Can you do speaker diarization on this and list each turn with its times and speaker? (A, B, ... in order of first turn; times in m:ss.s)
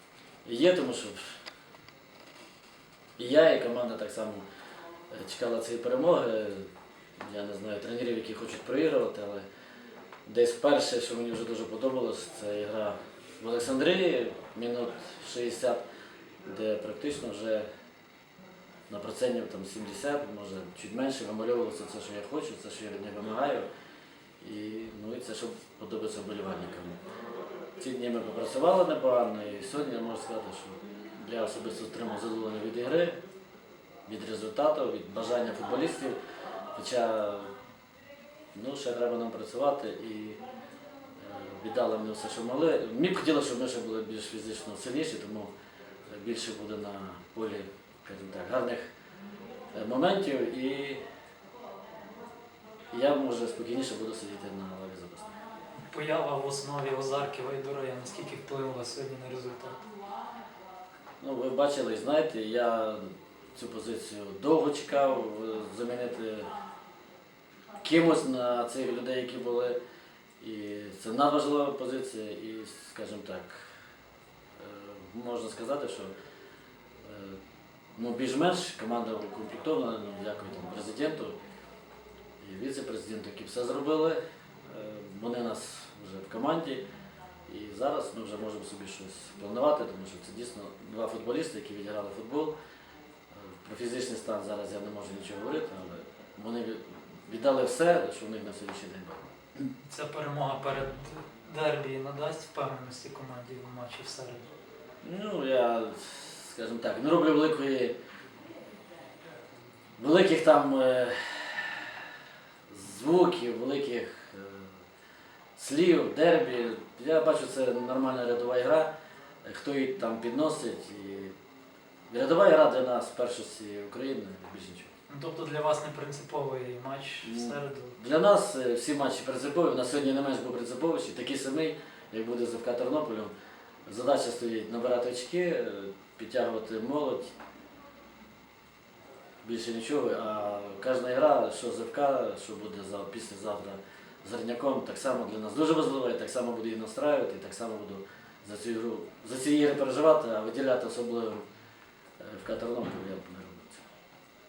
0:00.4-0:01.4 A
0:03.2-0:04.4 A
0:05.1-0:06.7 A
0:07.2-0:09.4 A
0:10.2-0:15.8 A
0:16.4-0:17.7 A
0:18.9-0:23.7 A
0:24.4-0:27.0 A
0:27.8-0:33.2 A
0:34.0-0:36.2 A
0:36.7-0:37.5 A
0:38.5-0:40.4 A
0:41.2-0:45.5 A
0:46.1-0:48.9 A
0:49.7-0:51.0 A
0:52.9-0:55.4 A
0:55.8-0:59.8 B
1:01.2-1:06.5 A
1:07.8-1:09.8 A
1:10.4-1:13.7 A
1:14.6-1:16.1 A
1:17.0-1:17.4 A
1:18.0-1:21.4 A
1:22.4-1:26.8 A
1:27.5-1:32.5 A
1:33.3-1:39.3 A
1:39.8-1:44.5 B
1:45.0-1:48.0 A
1:50.0-1:52.0 A
1:52.7-1:54.8 A
1:55.6-1:58.9 A
1:59.4-2:01.3 A
2:02.1-2:04.9 A
2:05.1-2:08.0 B
2:07.2-2:13.3 A
2:13.9-2:17.3 A
2:19.4-2:31.4 A
2:32.2-2:33.8 A